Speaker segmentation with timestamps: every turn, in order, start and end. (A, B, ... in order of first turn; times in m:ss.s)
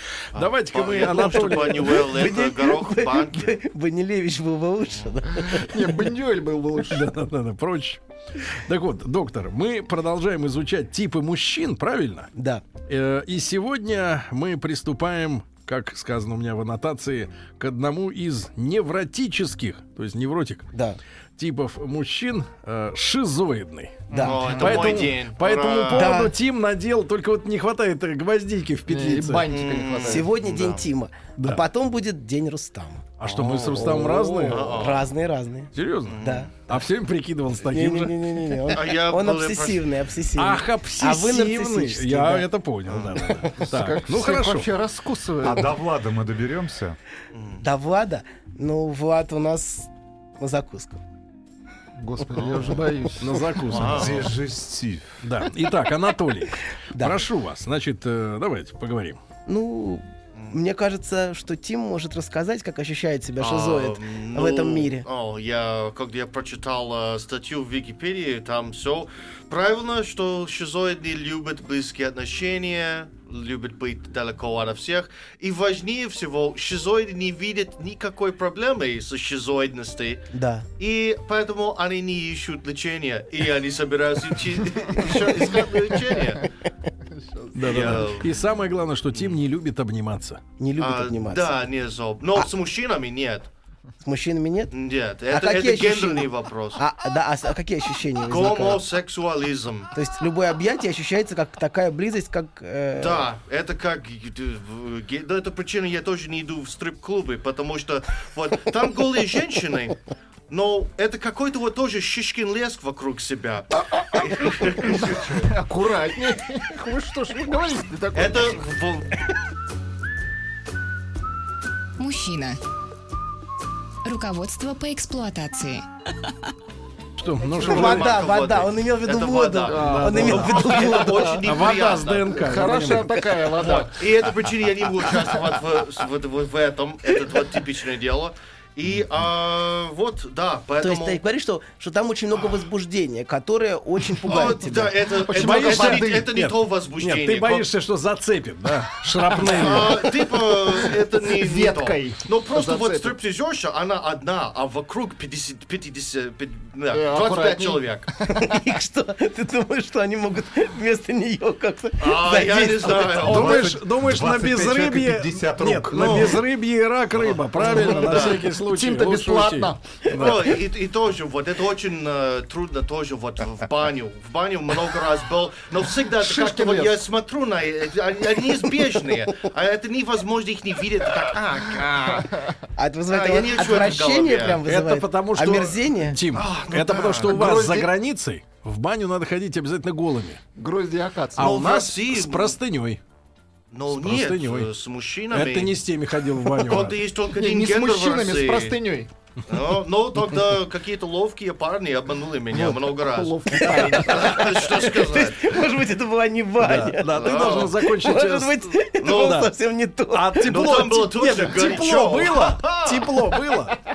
0:00.3-0:02.1 A
0:00.3-0:03.6 B
0:01.8-0:05.7 C
0:05.3-0:07.1 D
0:06.9-0:12.3 A
0:12.3-0:12.6 C
0:12.8-0:20.7 A
0:21.4-0:29.5 A
0:24.1-0:25.1 D
0:24.1-0:24.4 C
0:24.2-0:26.1 B
0:25.9-0:26.3 C
0:28.9-0:30.2 D
0:29.5-0:30.8 B
0:30.0-0:33.0 C
0:31.4-0:31.6 A
0:33.2-0:34.9 A
0:33.3-0:33.9 B
0:33.7-0:36.5 C
0:34.5-0:35.1 B
0:35.7-0:38.1 A
0:36.0-0:36.5 B
0:37.7-0:42.5 C
0:38.7-0:39.8 B
0:40.4-0:44.7 A
0:42.9-0:43.4 B
0:43.6-0:45.7 D
0:45.4-0:47.0 E
0:47.3-0:47.6 B
0:47.6-0:51.0 C
0:52.0-0:53.8 D
0:52.4-0:52.6 B
0:53.2-0:54.2 A
0:53.7-0:54.3 B
0:53.8-0:55.2 E
0:55.2-0:59.2 A
0:57.0-0:57.2 C
0:59.5-1:05.0 C
1:03.4-1:26.5 B
1:20.3-1:20.6 C
1:25.0-1:26.2 D
1:27.1-1:28.0 D
1:27.5-1:30.4 A
1:27.6-1:28.3 B
1:30.6-1:31.6 C
1:30.8-1:33.5 B
1:34.0-1:34.7 C
1:34.7-1:36.8 B
1:35.3-1:38.8 C
1:38.3-1:39.9 B
1:39.9-1:43.3 C
1:43.0-1:55.4 B
1:54.4-1:58.7 D
1:58.1-1:59.1 B
2:02.0-2:02.6 F
2:04.0-2:05.8 F
2:07.2-2:08.2 A
2:07.6-2:12.4 B
2:07.6-2:11.3 C
2:09.7-2:11.7 D
2:09.8-2:10.7 A
2:11.4-2:13.8 A
2:12.3-2:14.2 D
2:13.6-2:21.2 B
2:20.8-2:25.0 C
2:24.3-2:27.7 B
2:25.1-2:26.3 D
2:25.3-2:30.1 A
2:29.4-2:30.5 D
2:29.4-2:38.1 B
2:31.2-2:33.2 D
2:36.9-2:38.6 D
2:38.3-2:43.2 C
2:42.0-2:43.7 B
2:43.2-2:50.6 A
2:43.2-2:46.3 E
2:45.9-2:46.4 B
2:47.6-2:50.2 D
2:47.6-2:48.4 B
2:50.2-3:02.3 B
2:56.2-2:57.0 D
3:02.1-3:02.6 D
3:02.8-3:06.2 C
3:03.1-3:04.6 B
3:04.6-3:10.4 A
3:06.3-3:07.4 B
3:07.3-3:07.9 D
3:10.6-3:11.5 D
3:11.4-3:13.0 A
3:11.4-3:12.6 B
3:13.7-3:15.7 B
3:13.9-3:14.7 A
3:15.3-3:17.0 A
3:16.5-3:18.8 B
3:17.3-3:19.1 D
3:19.5-3:25.5 B
3:22.5-3:25.0 D
3:23.6-3:30.7 C
3:26.6-3:29.5 A
3:27.1-3:27.7 B
3:29.0-3:29.4 B
3:30.1-3:33.8 A
3:30.4-3:33.2 B